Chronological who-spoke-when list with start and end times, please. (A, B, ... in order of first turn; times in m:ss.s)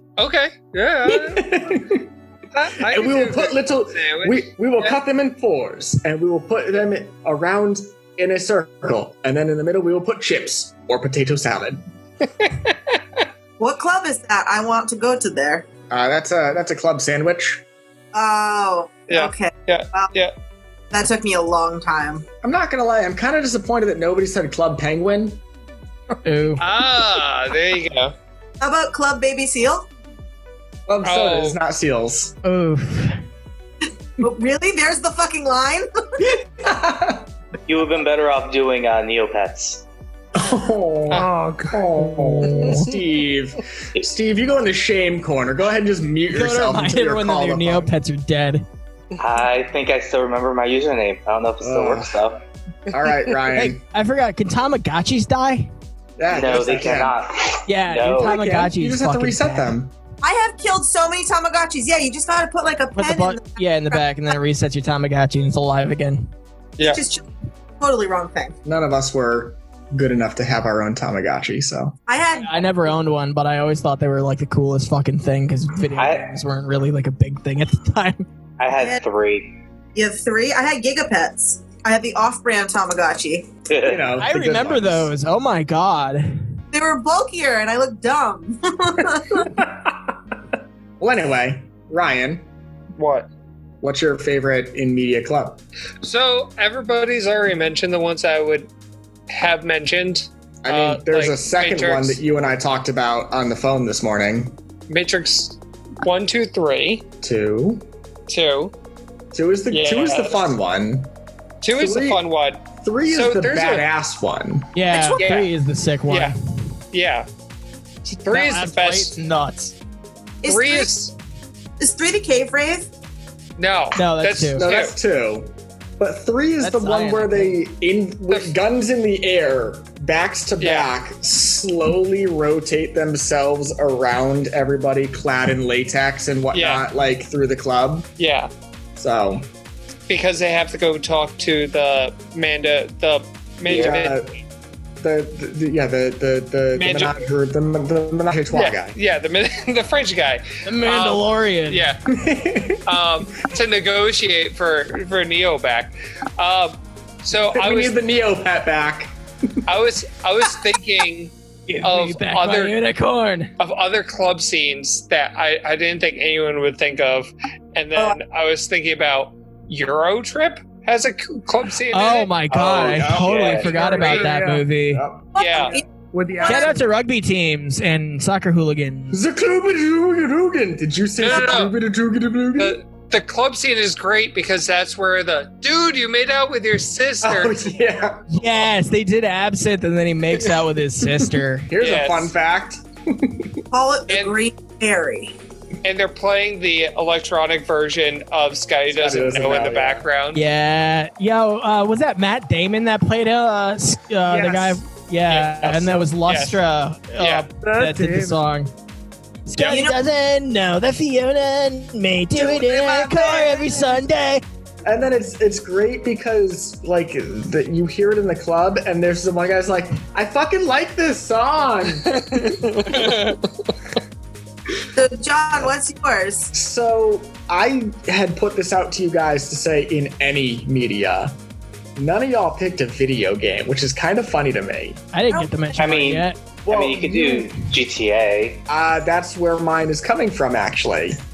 0:00.2-0:01.7 A
0:01.1-0:02.1 B
0:02.5-0:05.0 A
0:02.9-0:11.8 B
0:13.6-0:15.7 C
0:15.9-0:17.6 B
0:18.1-0:20.1 C
0:19.1-0:20.3 A
0:20.9-0:22.3 C
0:22.4-0:25.4 B
0:26.2-0:26.6 D
0:26.6-0:28.1 A
0:28.6-0:29.9 C
0:30.9-0:32.4 B
0:31.0-0:31.6 A
0:32.4-0:33.2 D
0:34.2-0:36.3 C
0:36.6-0:37.3 B
0:37.7-0:39.8 E
0:40.4-0:47.9 B
0:41.1-0:41.9 F
0:42.0-0:42.9 D
0:46.3-0:48.6 D
0:49.2-0:52.4 E
0:51.6-0:52.2 B
0:52.9-0:53.8 B
0:53.5-0:55.7 D
0:56.2-0:57.2 B
0:56.3-0:58.4 E
0:57.7-0:59.7 D
0:58.1-0:59.9 B
1:00.2-1:04.3 C
1:03.0-1:06.3 D
1:06.8-1:07.3 C
1:07.8-1:08.6 C
1:08.6-1:12.0 B
1:12.1-1:12.7 C
1:12.4-1:18.3 D
1:16.0-1:16.4 E
1:18.6-1:19.5 E
1:18.8-1:19.0 C
1:20.0-1:23.5 C
1:23.7-1:24.1 E
1:23.9-1:25.1 B
1:24.2-1:26.4 D
1:26.7-1:29.5 C
1:31.0-1:32.5 B
1:33.0-1:33.3 A
1:33.8-1:35.6 B
1:36.0-1:38.7 A
1:39.3-1:42.2 A
1:40.6-1:44.6 B
1:44.9-1:47.0 A
1:47.2-1:47.9 B
1:48.3-1:48.7 A
1:49.3-1:51.1 B
1:49.7-1:50.5 A
1:51.6-1:53.9 A
1:51.7-1:52.2 B
1:52.8-1:54.7 B
1:54.8-1:56.3 D
1:54.9-1:55.3 C
1:55.2-1:55.5 A
1:56.1-1:56.3 A
1:56.9-1:57.3 A
1:58.0-1:59.2 A
1:58.3-1:59.8 D
2:00.4-2:01.0 C
2:00.5-2:01.1 A
2:01.8-2:02.9 C
2:03.6-2:05.0 A
2:04.0-2:04.6 D
2:04.6-2:18.1 B
2:06.6-2:07.6 D
2:08.3-2:08.6 A
2:10.6-2:10.9 A
2:16.5-2:16.9 A
2:18.2-2:18.5 A
2:19.0-2:19.5 B
2:20.1-2:24.2 A
2:23.7-2:24.3 B
2:25.0-2:29.0 B
2:26.7-2:27.2 A
2:28.5-2:32.0 A
2:30.7-2:31.9 D
2:32.1-2:32.8 B
2:32.9-2:38.0 A
2:37.5-2:39.1 B
2:39.7-2:42.8 A
2:41.7-2:43.5 D
2:43.6-2:52.4 A
2:51.9-2:55.0 D
2:52.5-2:54.2 B
2:52.6-2:53.6 E
2:52.9-2:54.3 A
2:53.6-2:54.7 F
2:54.8-2:55.3 B
2:55.4-2:55.8 C
2:55.4-2:55.8 A
2:56.1-2:56.8 F
2:56.4-2:56.7 C
2:56.4-2:59.2 D
2:59.1-3:02.8 B
3:01.2-3:01.8 A
3:02.6-3:07.7 A
3:07.2-3:08.2 B
3:08.3-3:11.7 D
3:11.7-3:13.5 B
3:11.8-3:12.3 A
3:13.7-3:15.4 C
3:14.1-3:14.4 A
3:15.8-3:20.4 A
3:18.9-3:20.1 B
3:20.3-3:28.7 D
3:24.3-3:24.8 F
3:25.3-3:26.6 A
3:27.2-3:27.5 A
3:27.6-3:28.4 F
3:29.5-3:34.4 D
3:29.6-3:30.0 C
3:32.4-3:33.8 C
3:34.8-3:43.1 B
3:42.1-3:43.4 A
3:45.0-3:46.5 C
3:46.5-3:51.4 B
3:52.0-3:55.0 B
3:55.1-3:56.4 D
3:55.3-3:55.6 C
3:55.8-3:58.6 E
3:56.7-3:57.5 B
3:58.7-4:01.2 B